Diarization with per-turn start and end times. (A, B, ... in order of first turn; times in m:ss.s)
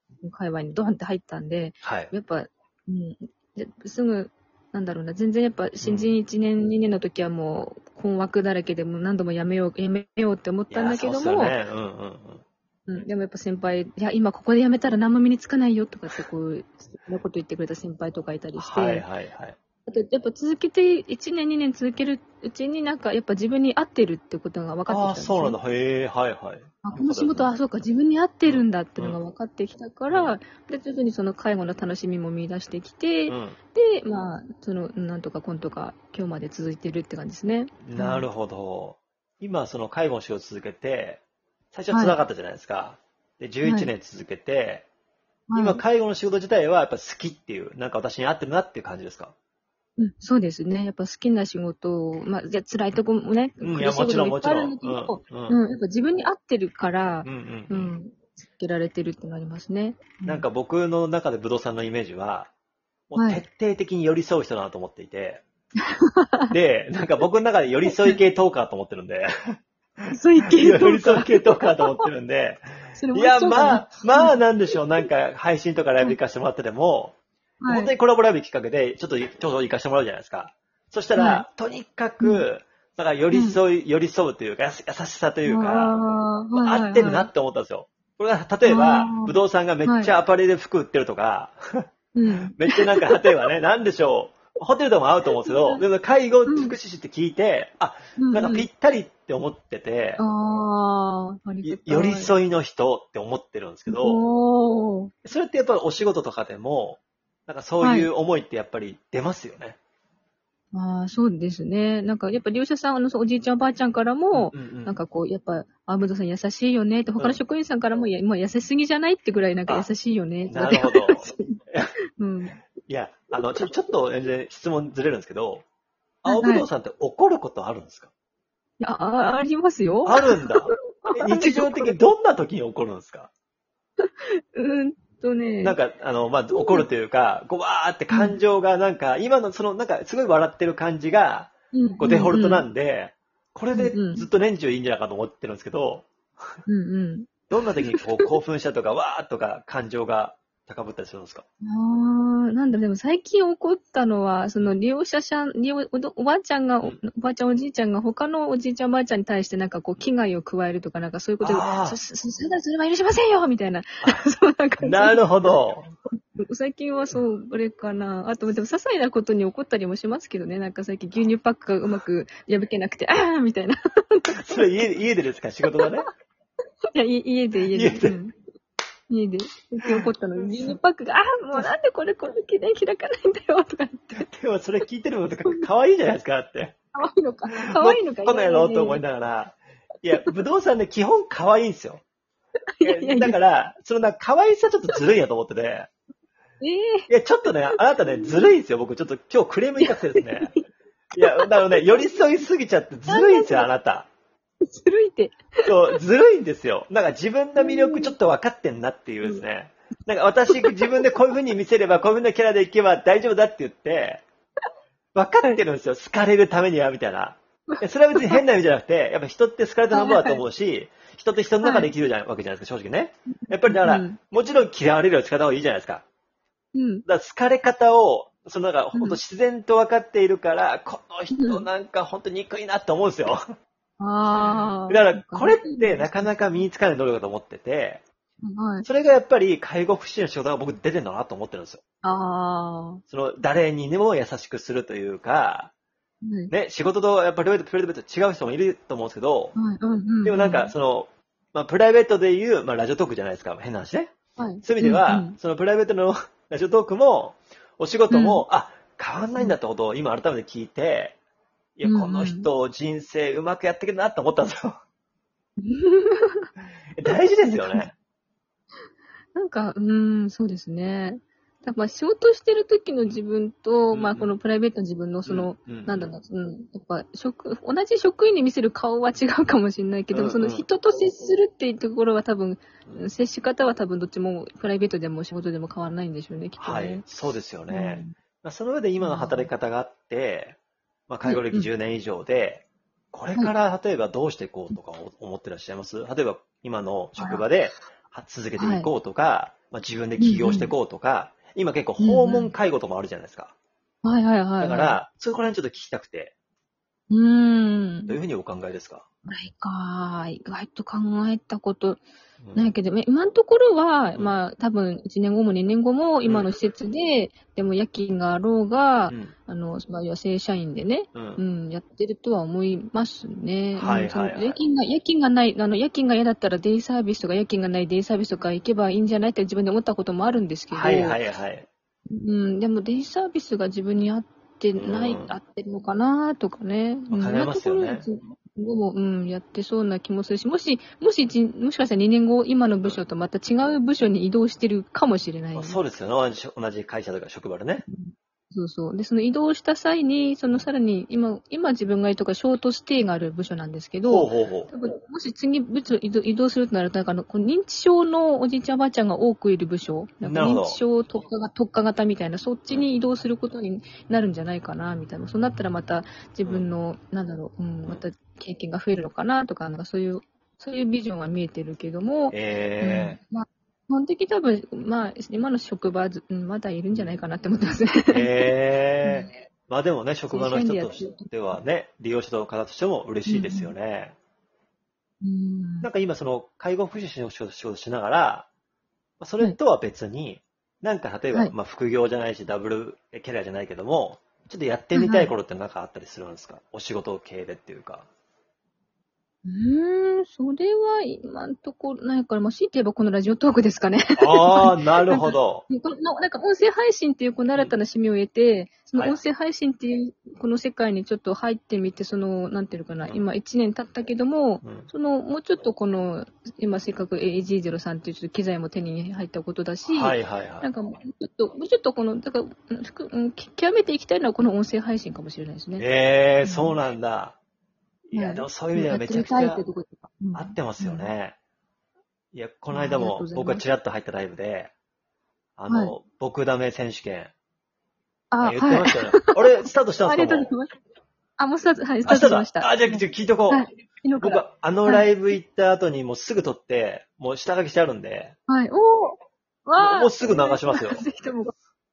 0:00.2-0:11.6 A
0:01.8-0:02.1 B
0:05.8-0:06.1 B
0:10.7-0:12.4 B
0:12.9-0:19.0 A
0:18.6-0:19.6 B
0:19.9-0:25.6 A
0:24.9-0:27.5 B
0:26.8-0:38.3 A
0:28.5-0:29.2 B
0:33.3-0:33.6 B
0:37.8-0:44.9 B
0:41.9-0:42.2 A
0:43.6-0:43.9 A
0:45.5-0:45.8 A
0:45.6-0:49.3 B
0:50.0-1:00.4 A
0:53.6-0:55.6 B
0:57.2-0:58.0 B
1:00.3-1:02.5 B
1:03.1-1:05.4 B
1:03.2-1:03.4 A
1:05.9-1:06.6 A
1:06.5-1:09.6 B
1:10.1-1:11.8 A
1:10.5-1:17.2 B
1:13.0-1:14.4 A
1:17.6-1:17.9 A
1:17.7-1:26.0 B
1:21.2-1:21.4 A
1:23.3-1:23.6 A
1:25.4-1:27.3 A
1:26.6-1:31.9 B
1:28.7-1:29.3 A
1:29.8-1:30.1 A
1:32.2-1:33.4 A
1:32.5-1:40.2 B
1:35.5-1:35.8 A
1:36.5-1:36.8 A
1:38.2-1:38.7 A
1:40.2-1:42.3 A
1:41.6-1:44.2 B
1:43.9-1:45.1 A
1:45.2-1:49.8 B
1:47.8-1:48.1 A
1:50.7-2:01.6 A
1:54.3-1:55.0 B
2:00.5-2:01.9 B
2:02.2-2:02.6 A
2:02.9-2:05.6 B
2:06.2-2:08.1 B
2:06.3-2:06.7 A
2:08.8-2:12.0 A
2:10.0-2:13.3 B
2:14.0-2:15.8 A
2:15.6-2:26.1 B
2:16.5-2:16.8 A
2:18.1-2:18.4 A
2:21.7-2:22.6 A
2:23.7-2:24.3 A
2:26.7-2:27.3 A
2:27.5-2:31.4 B
2:31.6-2:45.2 A
2:41.4-2:42.0 B
2:44.8-2:45.9 B
2:46.4-2:54.9 A
2:54.3-2:56.1 B
2:57.0-2:58.4 A
2:57.7-2:58.2 B
2:59.1-3:04.2 A
2:59.8-3:00.8 B
3:04.1-3:06.8 B
3:07.0-3:09.0 A
3:07.6-3:12.0 B
3:12.8-3:13.4 A
3:12.8-3:15.9 B
3:16.6-3:17.5 A
3:17.1-3:20.5 B
3:19.8-3:20.6 A
3:21.2-3:22.2 A
3:21.2-3:24.1 B
3:23.1-3:23.7 A
3:24.6-3:25.7 A
3:25.6-3:34.2 B
3:27.6-3:28.1 A
3:35.2-3:46.0 B
3:37.7-3:38.4 A
3:39.9-3:40.4 A
3:41.6-3:41.9 A
3:43.5-3:44.2 A
3:46.7-3:47.0 A
3:47.1-3:53.4 B
3:51.3-3:51.6 A
3:54.0-3:56.3 A
3:54.4-3:58.0 B
3:58.4-3:58.9 A
3:58.8-4:01.8 B
4:02.0-4:03.0 A
4:03.1-4:05.7 B
4:06.2-4:06.5 A
4:06.5-4:09.6 B
4:09.6-4:10.7 A
4:10.2-4:21.2 B
4:14.4-4:15.4 A
4:18.1-4:18.4 A
4:21.8-4:24.8 B
4:21.8-4:22.5 A
4:25.6-4:26.5 A
4:27.0-4:27.9 B
4:27.4-4:27.9 A
4:29.3-4:47.1 A
4:33.9-4:34.3 B
4:35.3-4:36.1 B
4:40.1-4:40.7 B
4:46.6-4:50.6 B
4:47.7-4:48.1 A
4:49.0-4:49.5 A
4:51.1-5:03.5 B
4:51.2-4:51.7 A
4:57.2-4:57.4 A
4:58.6-4:58.9 A
5:00.2-5:00.7 A
5:02.0-5:02.5 A
5:04.0-5:05.0 A
5:04.6-5:06.3 B
5:07.1-5:08.2 A
5:08.1-5:09.0 B
5:09.3-5:12.0 A
5:12.4-5:12.7 B
5:12.6-5:31.2 A
5:19.1-5:19.3 B
5:21.1-5:21.4 B
5:23.8-5:24.6 B
5:30.7-5:31.7 B
5:32.1-5:45.8 A
5:34.8-5:35.4 B
5:37.1-5:38.1 B
5:45.6-5:47.8 B
5:47.9-6:18.5 A
5:54.0-5:54.7 B
6:00.2-6:00.8 B
6:12.3-6:13.2 B
6:18.1-6:24.2 B
6:19.0-6:19.3 A
6:20.3-6:21.3 A
6:23.3-6:23.7 A
6:25.2-6:25.9 A
6:25.8-6:28.5 B
6:29.2-6:38.1 B
6:34.9-6:35.3 A
6:39.4-7:05.9 A
6:44.2-6:45.7 B
6:54.6-6:54.9 B
6:59.9-7:00.7 B
7:05.8-7:07.4 B
7:06.4-7:06.8 A
7:08.1-7:09.6 B
7:08.1-7:11.1 A
7:10.3-7:11.4 B
7:12.3-7:14.7 B
7:12.7-7:13.6 A
7:15.6-7:17.3 B
7:15.7-7:16.0 A
7:18.3-7:19.4 A
7:18.4-7:20.5 B
7:20.0-7:20.8 A
7:21.4-7:25.1 A
7:22.1-7:23.6 B
7:24.2-7:28.4 B
7:28.5-7:31.5 A
7:29.8-7:31.0 B